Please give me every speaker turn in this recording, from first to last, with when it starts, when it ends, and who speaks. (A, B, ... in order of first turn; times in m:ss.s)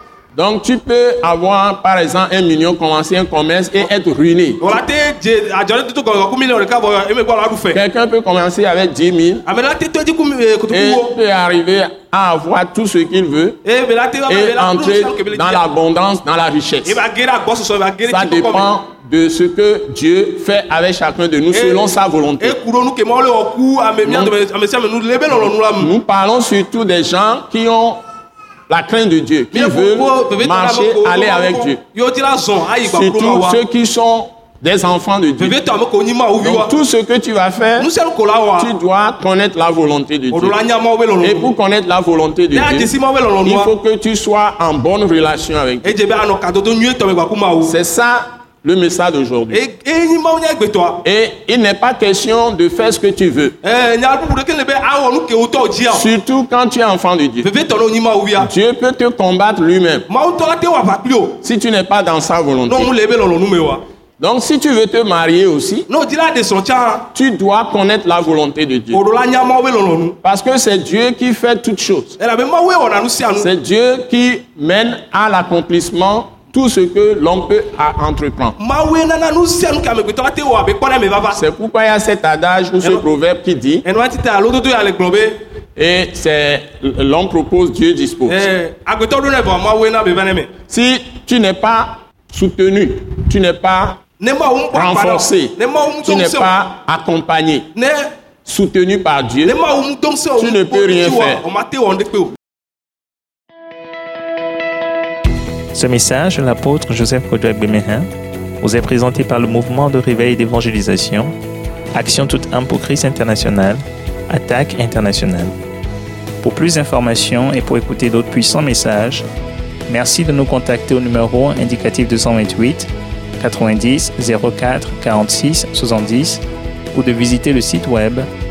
0:00.3-0:04.8 A
0:04.6-0:07.8 B
0:07.7-0:09.4 A
0:09.4-0:11.2 B
0:10.7-0:13.6 A
0:13.6-0:15.6 B
0:14.3-0:17.0 A
0:16.8-0:18.7 B
0:18.1-0:22.6 A
0:21.5-0:25.9 B
0:24.0-0:24.4 A
0:25.8-0:28.0 A
0:28.7-0:31.8 A
0:29.5-0:33.6 B
0:32.8-0:35.6 A
0:35.4-0:36.8 B
0:36.4-0:37.9 A
0:37.8-0:38.8 B
0:38.6-0:40.6 A
0:40.3-0:41.5 B
0:41.2-0:42.9 A
0:42.5-0:43.7 B
0:43.4-0:46.0 A
0:45.8-0:47.8 B
0:47.6-0:49.6 A
0:49.5-0:51.0 B
0:51.0-0:53.6 A
0:53.6-0:56.1 B
0:55.9-0:57.5 A
0:57.4-0:58.5 B
0:58.4-1:00.1 A
1:00.1-1:01.4 B
1:01.4-1:02.9 A
1:02.7-1:03.8 B
1:04.2-1:05.9 A
1:05.9-1:07.1 B
1:07.1-1:09.0 A
1:08.9-1:10.2 B
1:10.2-1:12.2 A
1:12.2-1:13.5 B
1:13.4-1:18.6 A
1:18.6-1:21.4 B
1:21.3-1:23.8 A
1:23.8-1:25.4 B
1:25.8-1:28.5 A
1:28.3-1:30.5 B
1:30.7-1:34.0 A
1:34.2-1:36.6 B
1:34.7-1:37.7 A
1:37.7-1:38.1 B
1:38.4-1:39.6 A
1:39.4-1:42.4 B
1:40.4-1:41.4 A
1:45.7-1:48.1 C
1:48.6-1:51.3 C
1:51.9-1:55.5 C
1:56.4-1:59.2 C
1:59.9-2:06.4 C
2:06.9-2:08.3 C